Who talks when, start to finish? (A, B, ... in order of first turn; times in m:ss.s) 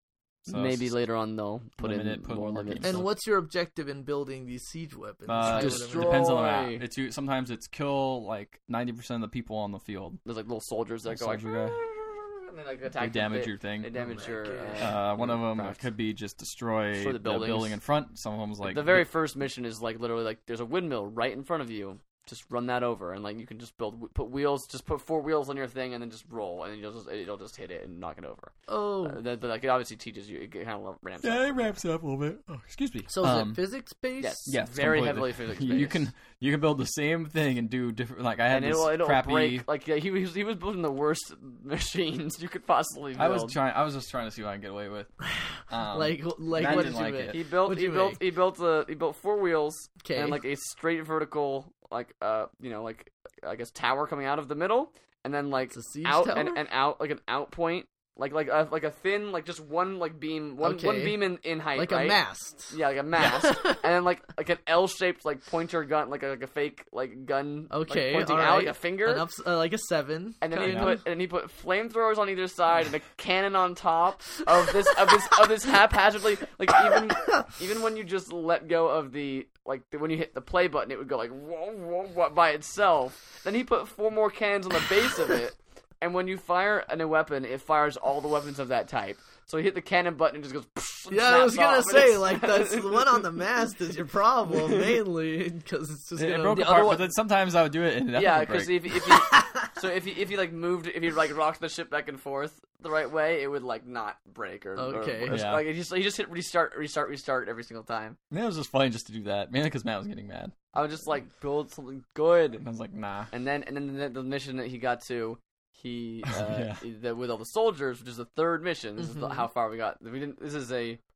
0:00.4-0:00.9 A
0:00.4-0:03.1 B
0:01.8-0:03.1 A
0:02.8-0:06.3 C
0:05.3-0:10.2 A
0:05.4-0:06.8 B
0:10.2-0:15.8 B
0:11.0-0:11.8 A
0:13.0-0:13.9 A
0:13.9-0:14.9 C
0:14.8-0:19.0 A
0:16.9-0:17.8 B
0:18.6-0:31.7 B
0:28.7-0:29.2 C
0:31.2-0:33.6 A
0:33.1-0:34.5 C
0:34.2-0:36.1 B
0:34.5-0:39.6 A
0:38.5-0:43.6 B
0:43.2-0:45.1 A
0:45.2-0:48.2 C
0:45.7-0:47.4 A
0:46.6-1:09.2 B
0:50.0-0:50.4 C
0:55.7-0:56.6 C
1:00.6-1:03.8 C
1:07.7-1:11.0 C
1:10.4-1:33.4 B
1:10.5-1:11.0 A
1:31.1-1:36.9 C
1:34.5-1:35.0 B
1:36.2-1:38.8 A
1:36.5-1:37.1 B
1:38.1-1:48.2 B
1:39.0-1:39.7 C
1:44.8-1:45.4 C
1:45.3-1:45.7 A
1:48.3-1:50.5 A
1:50.7-1:52.6 B
1:52.6-1:53.3 A
1:53.3-2:01.0 B
1:56.2-1:56.8 A